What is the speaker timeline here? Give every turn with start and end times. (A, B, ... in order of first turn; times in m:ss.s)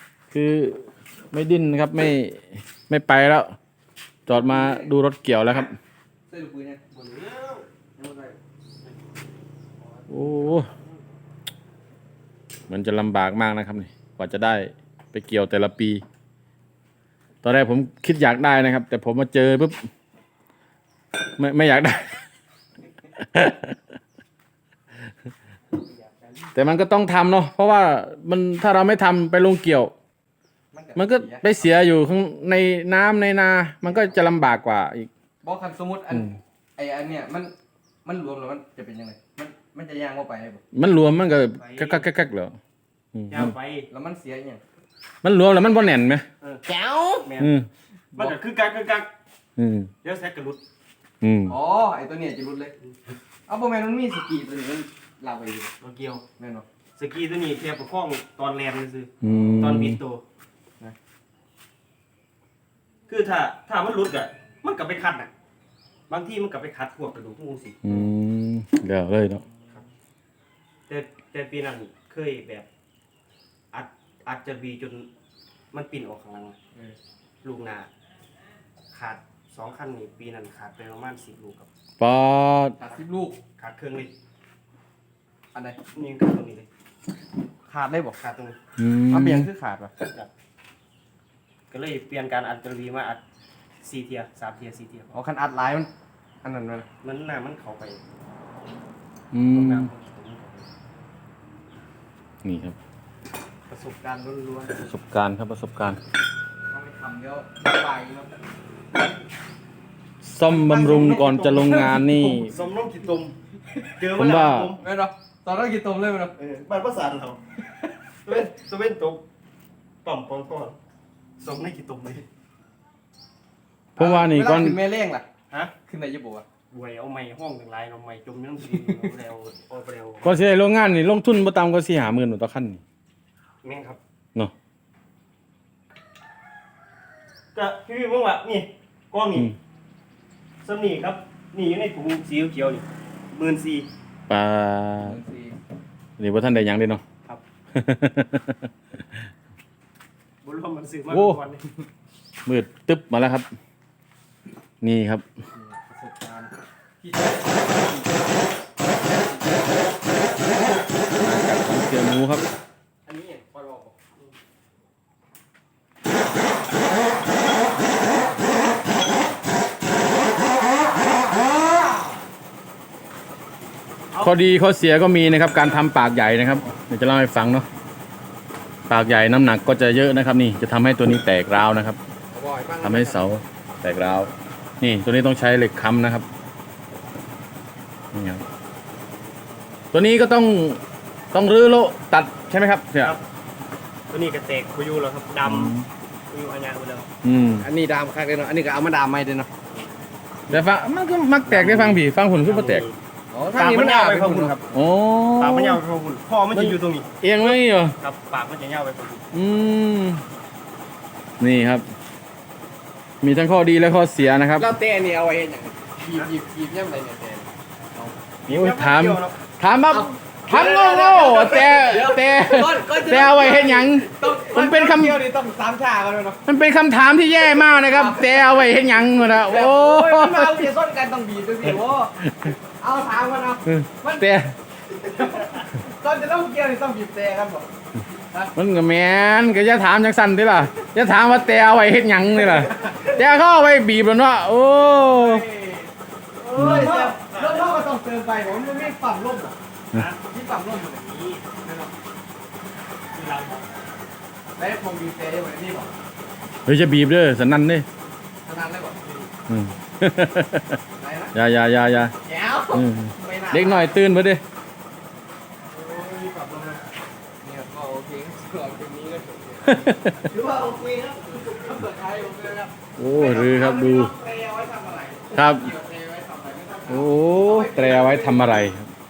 0:00.3-0:03.5 A
0:04.3-0:05.7 A
0:04.3-0:04.9 B
0:06.3-0:06.8 B
0:06.9-0:07.7 C
0:08.0-0:08.4 B
0:10.1-0:10.7 A
0:10.2-0:10.9 C
0:12.7-0:16.0 A
0:17.4-0:19.9 A
0:21.4-0:22.2 A
0:23.1-0:23.8 A
0:26.5-0:29.9 A
0:30.7-0:31.7 B
0:30.9-0:35.1 A
0:35.4-0:40.6 B
0:40.7-0:42.6 A
0:41.6-0:42.0 C
0:43.1-0:43.5 A
0:43.3-0:43.9 C
0:43.9-0:44.6 B
0:45.2-0:46.2 A
0:46.6-0:47.2 B
0:47.2-0:47.6 C
0:47.4-0:47.7 A
0:48.1-0:49.1 C
0:49.6-0:49.9 A
0:50.0-0:50.6 C
0:51.2-0:51.6 A
0:51.5-0:52.7 B
0:53.5-0:55.7 B
0:55.8-0:56.2 C
0:56.4-0:56.6 B
0:57.0-1:00.2 C
0:59.2-1:00.0 A
1:03.1-1:05.3 C
1:06.1-1:07.9 C
1:07.8-1:09.4 A
1:10.9-1:12.6 C
1:13.7-1:15.1 C
1:15.7-1:16.6 C
1:17.4-1:17.9 C
1:18.9-1:21.7 C
1:22.0-1:22.8 A
1:22.8-1:23.4 B
1:23.6-1:24.1 C
1:25.5-1:25.8 B
1:25.9-1:26.7 C
1:27.7-1:28.2 B
1:28.2-1:28.6 C
1:28.8-1:29.5 A
1:29.1-1:29.9 B
1:31.7-1:33.2 C
1:33.8-1:35.1 C
1:35.1-1:35.9 B
1:36.4-1:36.8 B
1:37.0-1:38.0 C
1:39.3-1:39.9 A
1:39.5-1:40.7 C
1:42.4-1:42.8 A
1:43.7-1:44.7 B
1:44.8-1:46.0 A
1:46.7-1:48.4 B
1:50.2-1:52.5 A
1:50.5-1:52.5 B
1:50.8-1:51.1 C
1:52.4-1:53.4 C
1:54.0-1:54.8 C
1:54.1-1:54.7 A
1:54.8-1:56.3 B
1:56.4-1:57.4 C
1:58.2-1:59.2 C
2:00.0-2:00.8 C
2:01.4-2:02.2 C
2:04.0-2:05.2 B
2:04.0-2:04.8 A
2:05.8-2:06.4 B
2:06.7-2:10.3 C
2:10.2-2:12.8 A
2:13.6-2:14.0 C
2:17.5-2:19.6 C
2:20.6-2:23.9 C
2:24.3-2:25.2 A
2:25.0-2:25.6 B
2:26.2-2:27.0 A
2:27.7-2:28.7 A
2:30.4-2:31.6 C
2:31.1-2:31.4 A
2:32.4-2:33.5 A
2:34.8-2:35.2 A
2:35.5-2:38.3 B
2:39.0-2:39.8 B
2:41.2-2:42.4 A
2:43.0-2:43.9 B
2:54.2-2:57.6 A
2:58.9-3:02.0 A
3:02.3-3:03.2 B
3:02.8-3:06.2 A
3:08.1-3:08.4 A
3:09.9-3:10.8 A
3:11.3-3:13.2 A
3:14.1-3:15.7 C
3:15.4-3:15.9 A
3:16.3-3:17.1 C
3:17.2-3:17.7 A
3:17.6-3:19.5 B
3:20.5-3:22.8 A
3:21.5-3:23.0 C
3:23.3-3:24.5 B
3:23.5-3:24.6 C
3:24.7-3:25.8 A
3:25.4-3:29.2 C
3:26.5-3:27.9 A
3:29.3-3:30.2 A
3:31.4-3:31.8 A
3:33.2-3:34.7 A
3:34.6-3:38.1 B
3:38.4-3:39.3 C
3:38.5-3:45.2 A
3:39.9-3:46.4 B
3:46.4-3:50.7 A
3:47.9-3:48.5 B
3:49.4-3:52.2 B
3:52.3-3:52.5 A
3:52.8-3:54.3 B
3:53.7-3:54.5 A
3:54.9-3:58.5 B
3:58.5-4:05.4 A
4:05.1-4:09.6 B
4:06.5-4:07.7 C
4:09.9-4:11.5 C
4:10.3-4:11.0 B
4:11.6-4:11.9 B
4:13.1-4:13.7 C
4:14.6-4:15.9 B
4:16.6-4:17.8 A
4:18.4-4:19.0 B
4:19.0-4:19.3 C
4:19.5-4:20.8 A
4:21.0-4:21.3 B
4:21.3-4:22.1 A
4:22.2-4:23.9 B
4:22.7-4:24.4 A
4:25.7-4:26.8 B
4:27.4-4:38.5 B
4:29.7-4:30.3 A
4:33.0-4:34.1 A
4:35.3-4:35.7 A
4:36.9-4:38.9 A